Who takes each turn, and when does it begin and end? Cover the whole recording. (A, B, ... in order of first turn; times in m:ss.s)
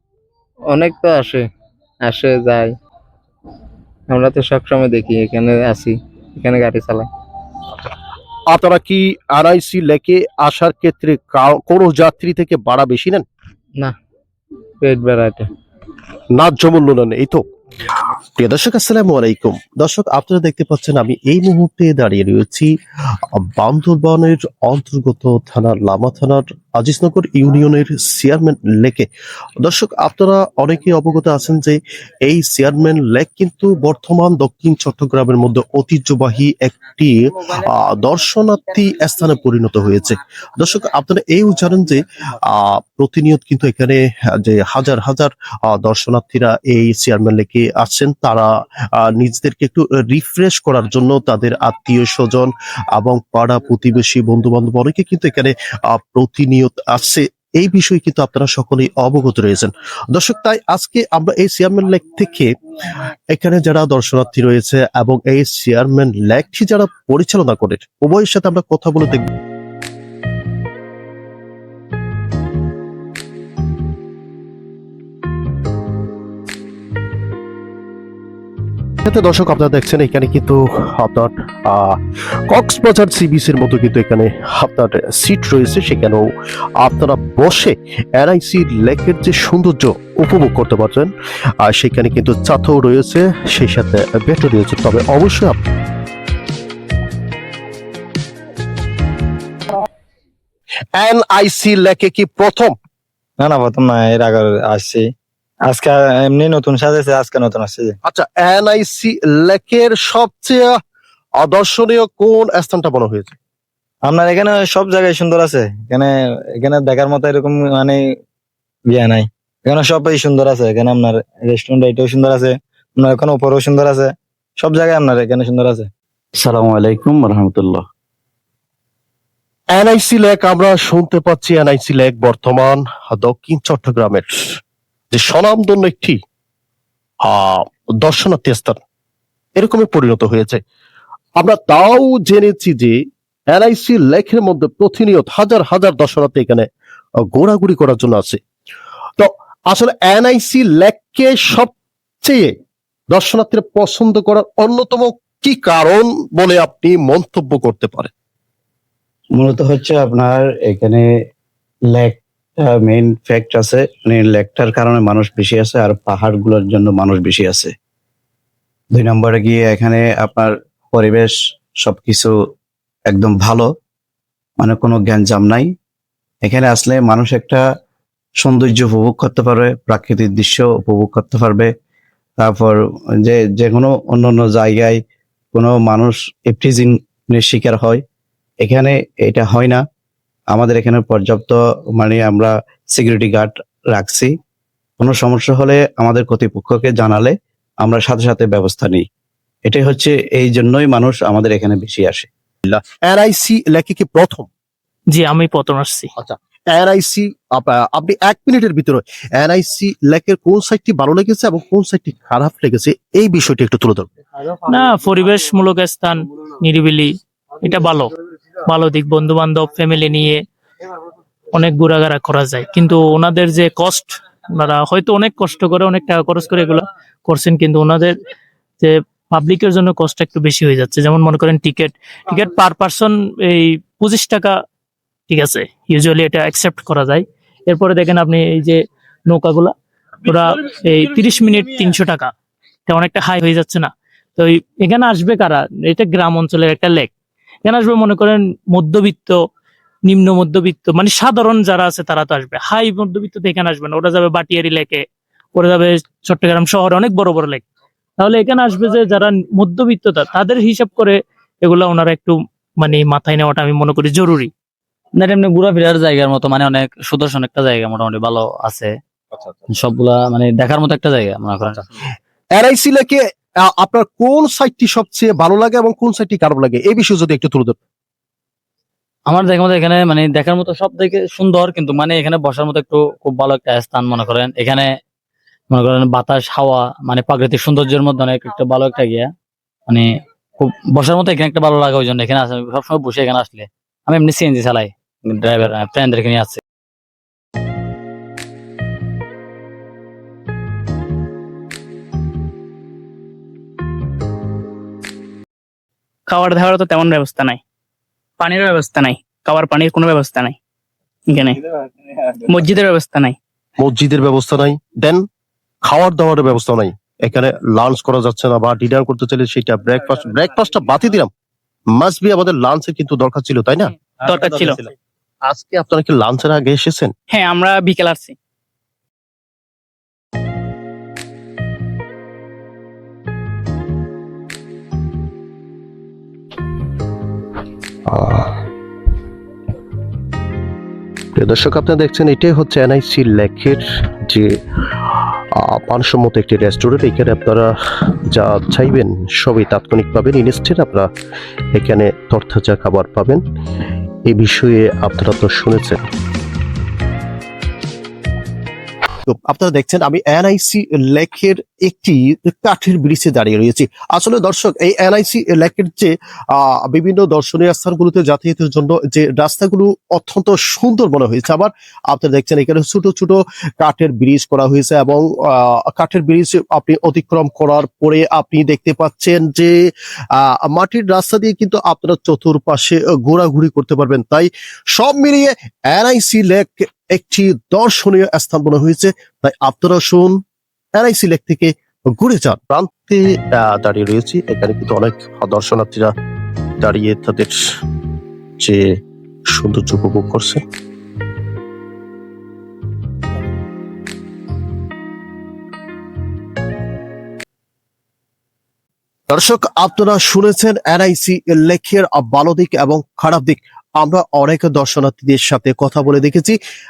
0:00.7-0:01.4 A
0:02.0-0:02.7 A
0:04.1-0:07.0 A
0:08.5-0:13.2 B
0:14.8-0:15.4 A
0:16.4-0:17.4 B
0:18.4-0:22.7 B
0:23.4-0:29.1 B
0:29.6-0:48.5 B
0:49.0-1:02.5 B
1:03.3-1:09.2 B
1:19.0-1:21.9 B
1:22.5-1:26.2 B
1:26.8-1:31.1 B
1:31.6-1:35.6 B
1:41.0-1:42.7 B
1:43.4-1:45.0 C
1:45.7-1:47.9 C
1:48.0-1:50.7 B
1:51.4-1:53.3 B
1:54.1-1:56.1 C
1:56.6-1:58.0 C
1:58.9-2:02.5 C
2:03.0-2:04.1 C
2:04.6-2:05.8 C
2:06.4-2:07.8 D
2:09.7-2:14.3 B
2:15.1-2:16.2 B
2:17.2-2:18.8 B
2:19.6-2:20.6 B
2:21.4-2:22.9 B
2:23.5-2:26.6 B
2:27.3-2:28.4 B
2:29.2-2:31.7 B
2:32.2-2:32.5 B
2:33.1-2:38.1 B
2:39.4-2:41.0 D
2:41.9-2:47.7 D
2:48.9-2:52.3 D
2:53.1-2:53.7 D
2:54.6-2:55.7 D
2:56.4-2:57.6 D
2:58.4-3:01.7 D
3:02.4-3:05.0 D
3:05.5-3:08.0 D
3:08.6-3:09.8 D
3:10.5-3:14.3 D
3:15.0-3:19.0 D
3:19.6-3:22.3 D
3:22.7-3:24.5 B
3:25.1-3:26.1 E
3:26.2-3:34.1 B
3:34.6-3:38.1 E
3:38.7-3:40.4 E
3:41.5-3:48.1 E
3:48.8-3:54.5 E
3:55.3-3:59.7 E
4:00.2-4:02.3 E
4:02.9-4:07.1 E
4:07.6-4:09.4 E
4:10.1-4:15.0 E
4:15.6-4:17.6 E
4:18.2-4:24.5 E
4:25.2-4:28.9 F
4:29.7-4:31.8 F
4:32.6-4:37.8 B
4:39.3-4:44.9 F
4:45.7-4:49.3 F
4:50.6-4:56.6 F
5:06.3-5:07.6 G
5:08.4-5:10.6 G
5:11.3-5:11.6 G
5:12.4-5:13.4 G
5:13.8-5:15.2 B
5:15.9-5:21.3 B
5:22.0-5:24.9 B
5:24.2-5:24.8 G
5:25.5-5:27.1 B
5:27.3-5:28.4 G
5:38.1-5:38.5 B
5:41.4-5:44.5 B
5:45.6-5:47.7 B
5:48.3-5:51.1 B
5:51.7-5:53.4 B
5:54.3-5:56.0 B
5:59.2-6:19.7 B
6:20.4-6:30.4 B
6:31.0-6:36.1 B
6:36.8-6:37.5 B
6:39.6-6:40.6 B
6:49.3-6:56.6 B